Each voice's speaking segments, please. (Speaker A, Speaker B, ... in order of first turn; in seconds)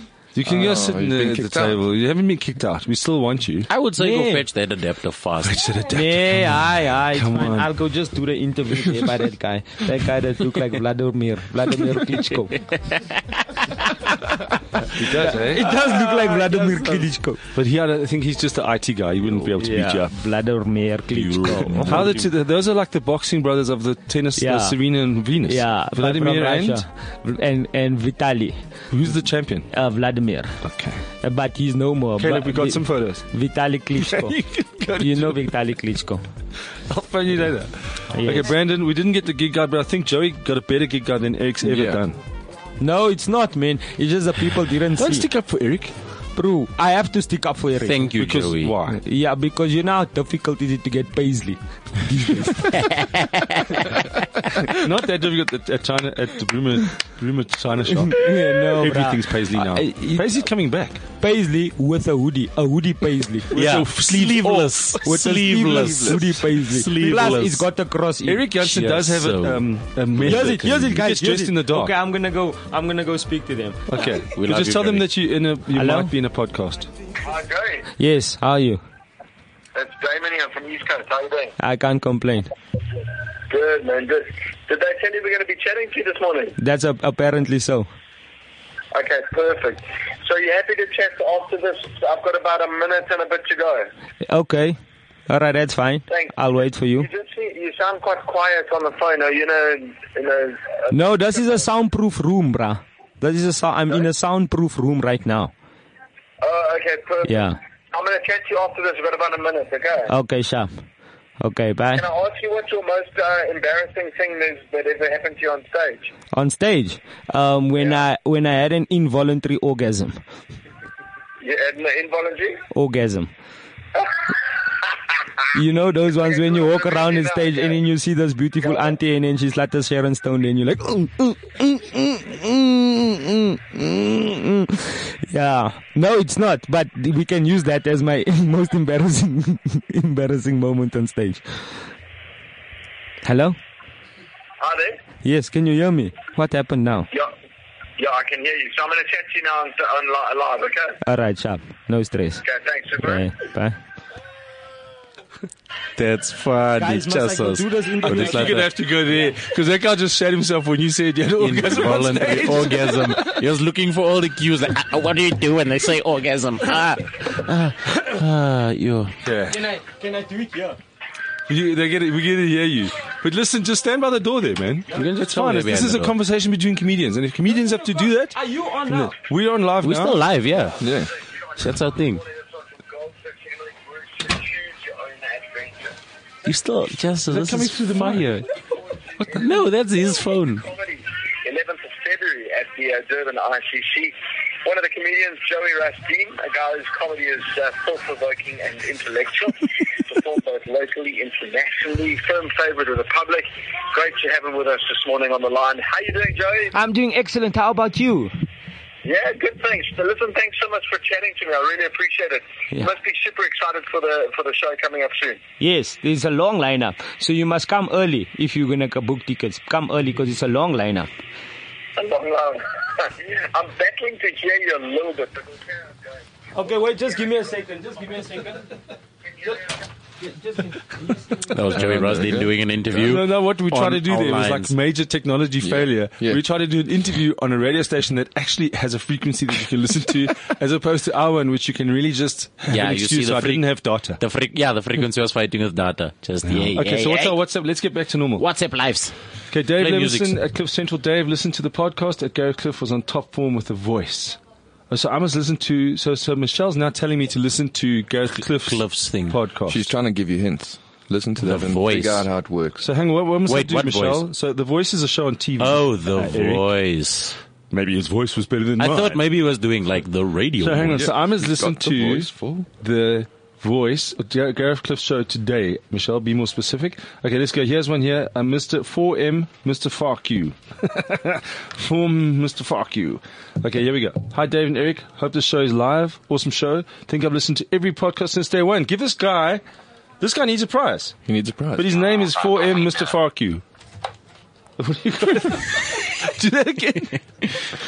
Speaker A: 0.3-3.7, 5.4-7.7, 14.9-16.8, 17.5-20.1, 21.9-26.8, 28.9-29.7, 30.6-31.0, 32.2-33.2, 34.0-35.5, 36.9-42.2, 45.0-45.9, 48.1-49.0, 54.7-61.0, 63.5-65.1, 68.2-71.9, 73.9-76.9, 158.0-163.4, 169.2-169.6, 171.5-178.4, 178.9-180.2, 187.3-188.5, 232.9-244.2, 246.4-248.4, 249.5-254.4, 254.9-259.9, 262.8-266.6, 267.7-269.2, 270.6-289.6, 290.2-291.1, 291.7-293.6, 294.8-297.2
Speaker B: 0.4-1.8, 41.6-42.0, 180.8-181.1, 231.7-232.5, 235.6-236.4, 259.7-262.9, 270.9-272.7, 291.2-292.0
Speaker C: 3.7-5.6, 12.7-13.1, 21.1-22.3, 47.8-48.8, 52.8-53.7, 63.5-67.7, 68.6-69.6, 70.2-70.8, 74.2-75.1, 156.0-158.7, 161.4-169.1, 174.9-176.1, 179.8-180.8, 181.6-182.2, 186.4-188.3, 189.3-190.7, 231.4-234.7, 242.7-247.4, 248.4-249.1, 249.7-250.4, 258.6-259.4, 261.4-262.3, 263.4-264.2, 265.6-267.4, 268.8-271.1, 292.5-293.0
Speaker D: 4.0-4.4, 5.9-12.6, 15.2-17.4, 19.6-22.2, 24.4-28.6, 29.7-30.6, 31.2-34.4, 35.0-36.2, 38.1-38.5, 42.8-45.3, 46.4-48.1, 48.9-52.9, 58.0-60.2, 61.2-63.5, 65.0-68.5, 70.2-74.1, 75.7-76.1, 78.0-78.8, 81.6-82.5, 86.6-87.9, 94.2-97.1, 100.9-105.5, 107.2-107.6, 110.1-110.8, 111.4-112.0, 116.3-120.2, 122.7-123.3, 125.5-141.4, 143.2-143.6, 145.2-147.1, 151.0-152.4, 153.0-153.8, 156.8-158.6, 169.5-170.8, 178.3-179.1, 206.7-208.3, 215.6-221.1, 226.5-228.7, 230.3-231.5
Speaker E: 77.2-77.9, 79.7-81.5, 83.5-86.5, 88.9-93.9, 96.1-96.3, 97.0-101.6, 106.4-110.1, 111.9-116.1, 121.4-122.6, 126.2-127.8, 144.6-145.0, 148.0-151.0, 152.4-153.2, 181.6-186.0, 190.6-206.7, 209.0-215.4, 222.0-225.9